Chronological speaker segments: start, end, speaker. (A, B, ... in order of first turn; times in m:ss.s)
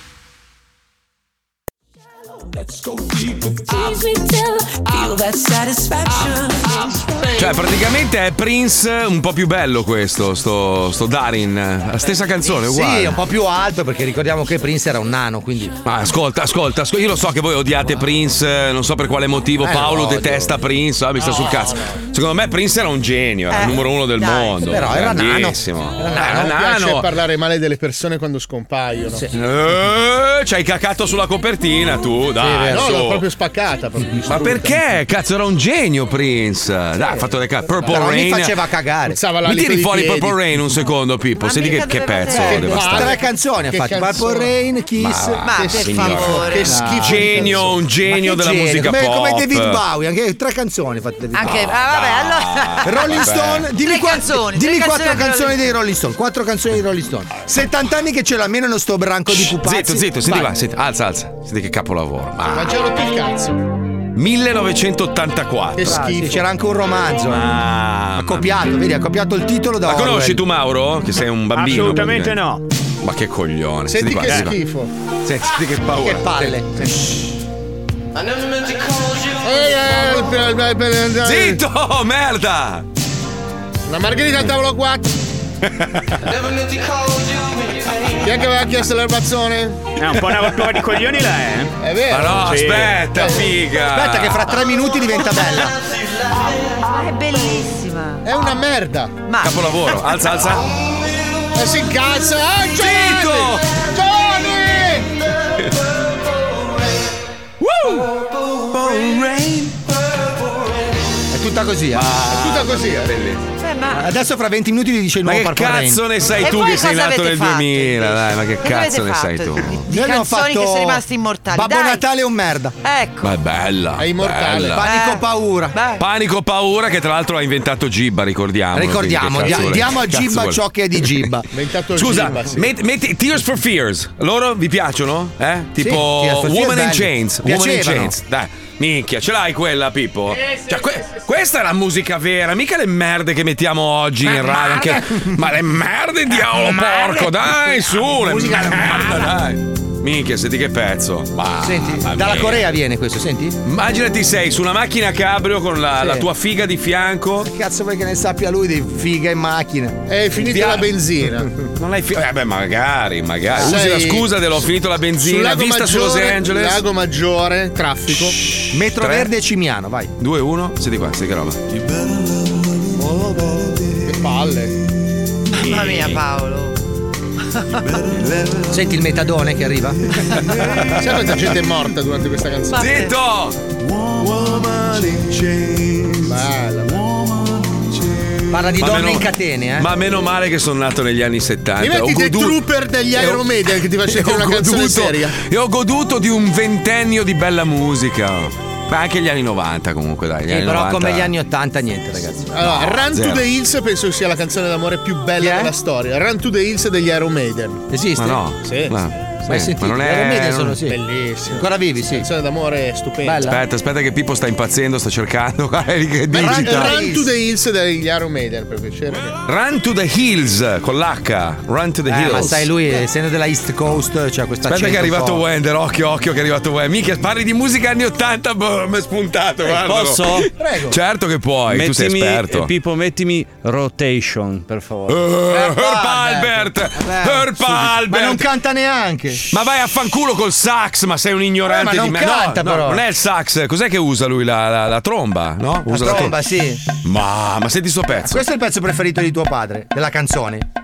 0:02.5-0:07.5 A
0:07.3-0:13.2 B
0:12.6-0:15.7 C
0:15.8-0:27.1 B
0:19.6-0:20.5 C
0:21.2-0:21.5 D
0:23.5-0:24.7 E
0:24.6-0:26.7 C
0:26.2-0:29.3 D
0:29.3-0:33.2 B
0:32.4-0:32.8 C
0:32.6-0:34.8 D
0:34.2-0:38.5 B
0:37.9-0:39.2 C
0:39.1-0:40.5 D
0:39.4-0:43.2 B
0:41.4-0:42.8 E
0:42.3-0:44.5 D
0:42.3-0:45.4 C
0:45.0-0:49.8 B
0:45.4-0:46.9 E
0:45.5-0:47.8 D
0:46.0-0:51.7 C
0:51.3-0:55.6 E
0:51.4-0:53.7 B
0:52.8-1:00.5 C
0:59.3-1:02.8 B
1:02.5-1:03.6 D
1:04.1-1:06.0 B
1:05.8-1:06.4 D
1:05.8-1:07.5 C
1:07.3-1:08.5 B
1:08.2-1:10.4 C
1:09.8-1:12.4 B
1:11.5-1:12.6 F
1:13.0-1:14.6 B
1:13.9-1:14.9 D
1:15.2-1:16.6 B
1:16.0-1:16.9 C
1:19.4-1:21.6 D
1:21.2-1:22.8 B
1:23.9-1:25.2 D
1:25.7-1:26.2 B
1:28.2-1:29.9 D
1:30.0-1:31.7 F
1:31.8-1:32.4 D
1:32.1-1:34.5 B
1:32.3-1:33.0 F
1:33.1-1:33.5 D
1:33.9-1:35.7 C
1:36.8-1:38.3 E
1:38.2-1:39.2 D
1:39.3-1:39.6 E
1:39.4-1:40.7 B
1:41.5-1:45.2 D
1:42.8-1:43.7 B
1:47.6-1:48.1 B
1:48.7-1:49.9 B
1:51.3-1:52.1 C
1:51.9-1:53.4 B
1:52.2-1:53.1 D
1:53.6-1:54.1 E
1:53.9-1:56.0 C
1:55.2-1:59.8 B
1:56.4-2:02.0 E
1:59.9-2:01.0 C
2:01.5-2:02.8 C
2:02.8-2:03.3 E
2:03.2-2:04.8 B
2:04.0-2:04.8 D
2:04.8-2:05.8 C
2:04.8-2:06.0 E
2:06.0-2:10.6 B
2:08.7-2:11.5 C
2:11.5-2:12.7 D
2:11.9-2:32.7 B
2:15.8-2:18.2 C
2:24.3-2:25.2 C
2:26.5-2:27.3 C
2:28.2-2:29.2 C
2:31.6-2:33.6 C
2:33.6-2:37.5 B
2:36.0-2:36.2 C
2:37.4-2:40.6 C
2:40.1-2:41.5 D
2:40.5-2:40.9 B
2:41.8-2:46.8 B
2:43.6-2:44.3 D
2:45.2-2:48.4 D
2:48.5-2:49.3 B
2:48.7-2:50.1 C
2:50.2-2:51.6 B
2:54.0-2:54.8 D
2:55.5-2:56.8 E
2:57.5-2:57.8 E
2:58.7-3:00.1 C
3:00.5-3:01.0 B
3:00.9-3:02.8 D
3:02.7-3:03.1 E
3:02.8-3:03.6 B
3:06.2-3:07.0 D
3:08.5-3:09.9 C
3:08.8-3:12.6 B
3:11.8-3:15.4 D
3:14.0-3:21.3 B
3:20.5-3:22.8 C
3:22.5-3:27.8 D
3:22.6-3:23.4 B
3:25.4-3:25.7 C
3:27.9-3:28.5 C
3:28.2-3:30.8 B
3:28.6-3:28.9 D
3:29.4-3:32.3 C
3:30.8-3:33.5 D
3:33.2-3:33.6 C
3:33.4-3:37.0 B
3:36.3-3:39.4 D
3:36.3-3:37.3 C
3:39.4-3:42.7 B
3:42.1-3:45.4 C
3:44.7-3:52.7 B
3:49.7-3:50.5 G
3:50.5-3:51.0 C
3:51.7-3:55.3 G
3:55.1-3:58.5 B
3:55.5-3:59.5 C
3:59.5-4:06.4 B
4:01.6-4:03.0 C
4:05.9-4:06.8 C
4:07.0-4:08.4 B
4:08.2-4:10.6 C